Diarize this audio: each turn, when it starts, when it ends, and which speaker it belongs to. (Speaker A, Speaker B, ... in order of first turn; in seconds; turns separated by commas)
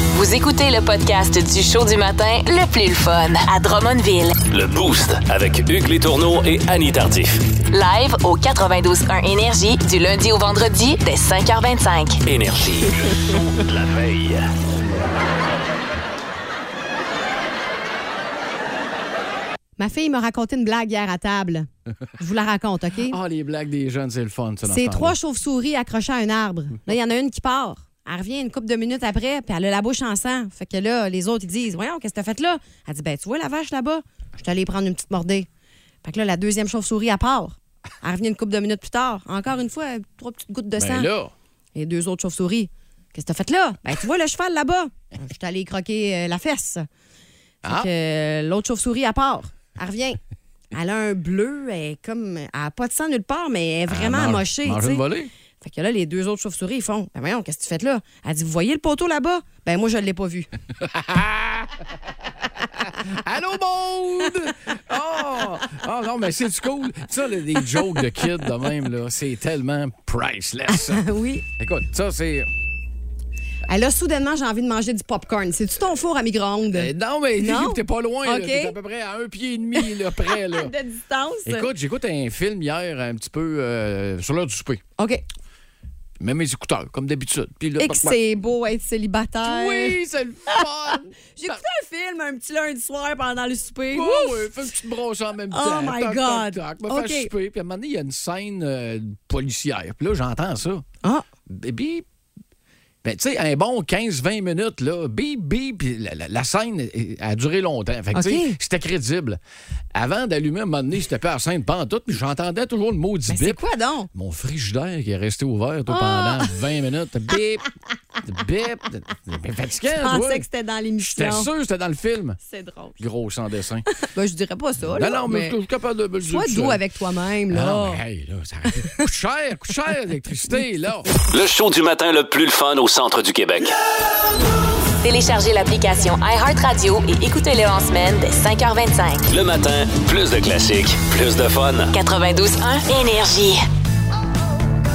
Speaker A: 0.1-4.4, Speaker B: 4.5-7.4, Speaker A: 7.7-12.2, Speaker B: 12.2-14.5, Speaker C: 19.8-21.7, Speaker C: 22.2-23.2, Speaker D: 23.1-25.1, Speaker C: 24.6-35.5, Speaker C: 36.0-41.1, Speaker D: 40.8-41.3, Speaker C: 41.7-46.9, Speaker D: 47.6-47.9, Speaker C: 47.7-50.2, Speaker C: 50.7-55.0, Speaker D: 53.9-55.3, Speaker C: 55.6-60.5, Speaker D: 60.9-61.7, Speaker D: 63.0-71.0, Speaker C: 70.7-71.4, Speaker D: 71.6-72.5, Speaker C: 73.7-78.7, Speaker D: 76.7-80.7, Speaker C: 79.8-81.7, Speaker D: 81.5-84.8, Speaker C: 85.0-85.2, Speaker D: 86.2-88.2, Speaker C: 87.8-90.0, Speaker D: 89.4-91.6, Speaker C: 91.3-94.5, Speaker D: 93.9-100.8, Speaker C: 95.5-97.3, Speaker D: 101.5-102.0, Speaker D: 103.0-109.4, Speaker C: 108.1-108.5, Speaker D: 109.9-113.6, Speaker C: 113.3-114.1, Speaker D: 114.1-117.7, Speaker C: 115.9-116.5, Speaker D: 118.2-120.4, Speaker C: 119.9-121.5, Speaker D: 121.0-122.4, Speaker C: 122.4-123.0, Speaker D: 123.0-123.8, Speaker C: 124.0-125.5, Speaker D: 124.9-126.8, Speaker C: 126.2-128.0, Speaker D: 127.5-131.1, Speaker B: 131.3-133.8, Speaker A: 135.0-139.3, Speaker B: 139.3-141.9, Speaker A: 141.9-143.6